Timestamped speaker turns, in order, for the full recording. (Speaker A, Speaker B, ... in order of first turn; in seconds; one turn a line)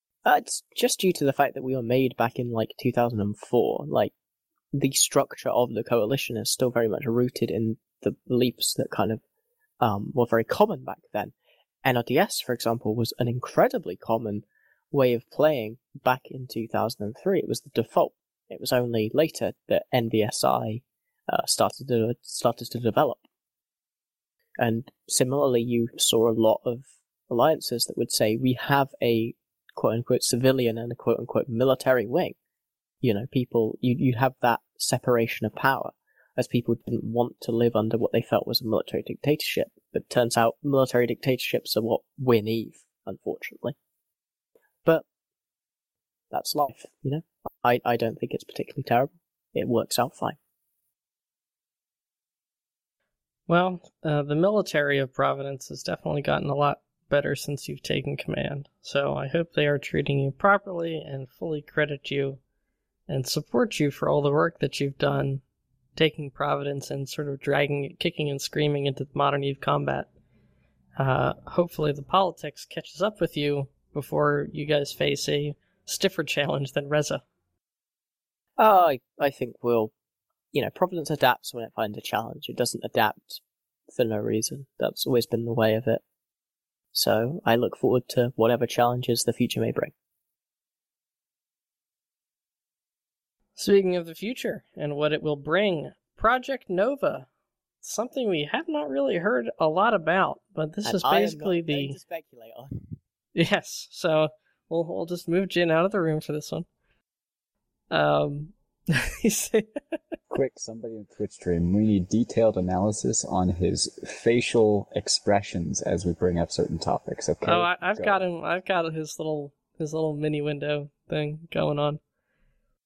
Speaker A: 0.2-4.1
Speaker A: 4.7-9.2
Speaker A: 9.8-23.2
Speaker A: 24.6-32.3
Speaker A: 33.0-43.8
Speaker A: 46.3-50.4
Speaker B: 53.5-62.4
Speaker B: 63.1-65.4
Speaker B: 66.0-70.1
Speaker B: 71.0-77.2
Speaker A: 78.6-79.9
Speaker A: 80.5-86.0
Speaker A: 86.9-89.9
Speaker B: 93.5-97.3
Speaker B: 97.8-102.0
Speaker A: 100.8-102.9
Speaker B: 103.3-106.7
Speaker B: 107.9-109.7
Speaker C: 110.3-118.2
Speaker B: 117.4-122.0